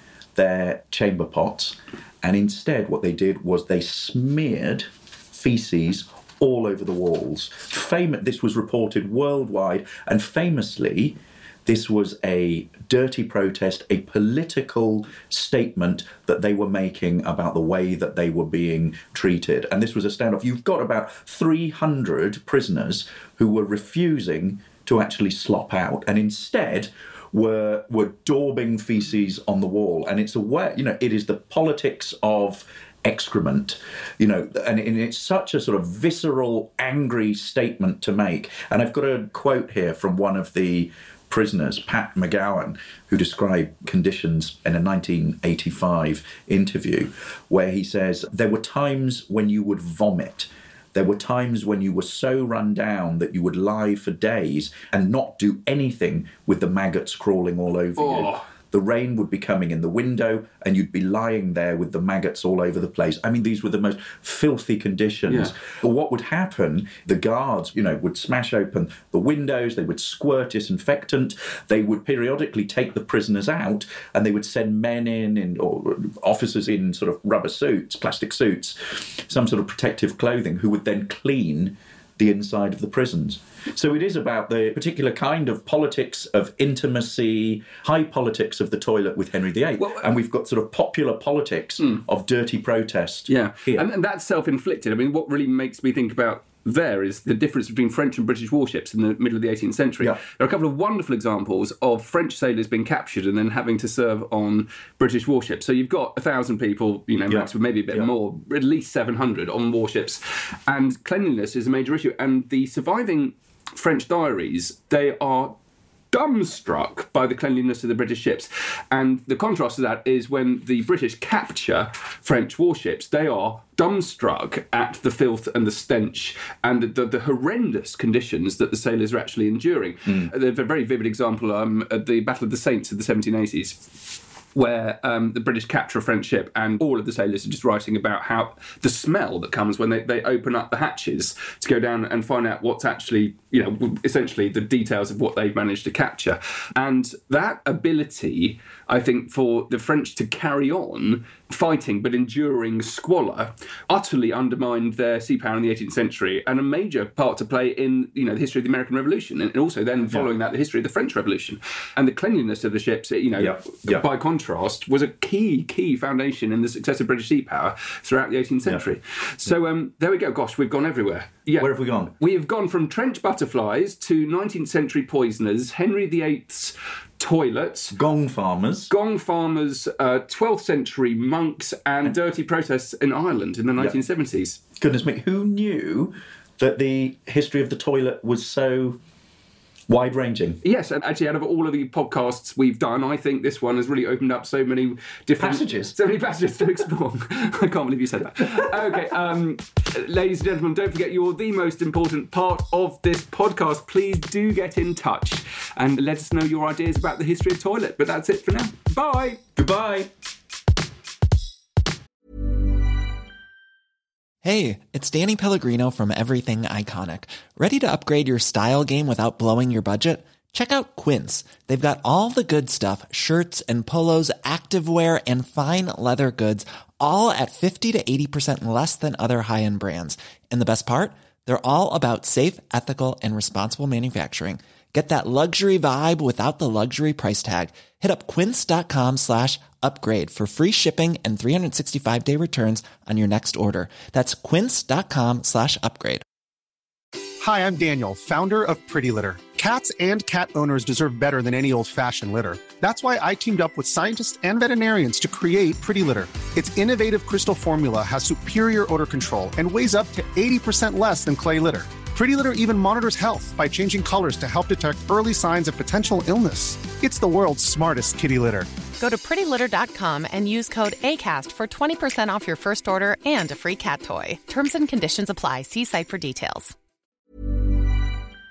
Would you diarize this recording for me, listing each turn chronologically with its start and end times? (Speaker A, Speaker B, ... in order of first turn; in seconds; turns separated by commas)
Speaker A: 0.4-93.9, Speaker B: 58.0-58.4, Speaker B: 65.3-65.5, Speaker B: 89.8-90.1, Speaker B: 93.3-115.5, Speaker A: 107.3-108.1, Speaker B: 116.1-178.0, Speaker A: 163.4-164.1, Speaker A: 168.6-168.9, Speaker A: 171.6-172.1, Speaker A: 177.9-178.9, Speaker B: 178.9-184.6, Speaker A: 184.8-189.0, Speaker A: 189.9-190.6, Speaker B: 190.6-209.4, Speaker A: 195.4-195.9, Speaker A: 209.6-210.1, Speaker C: 214.4-246.2, Speaker D: 247.4-268.7, Speaker E: 269.0-276.7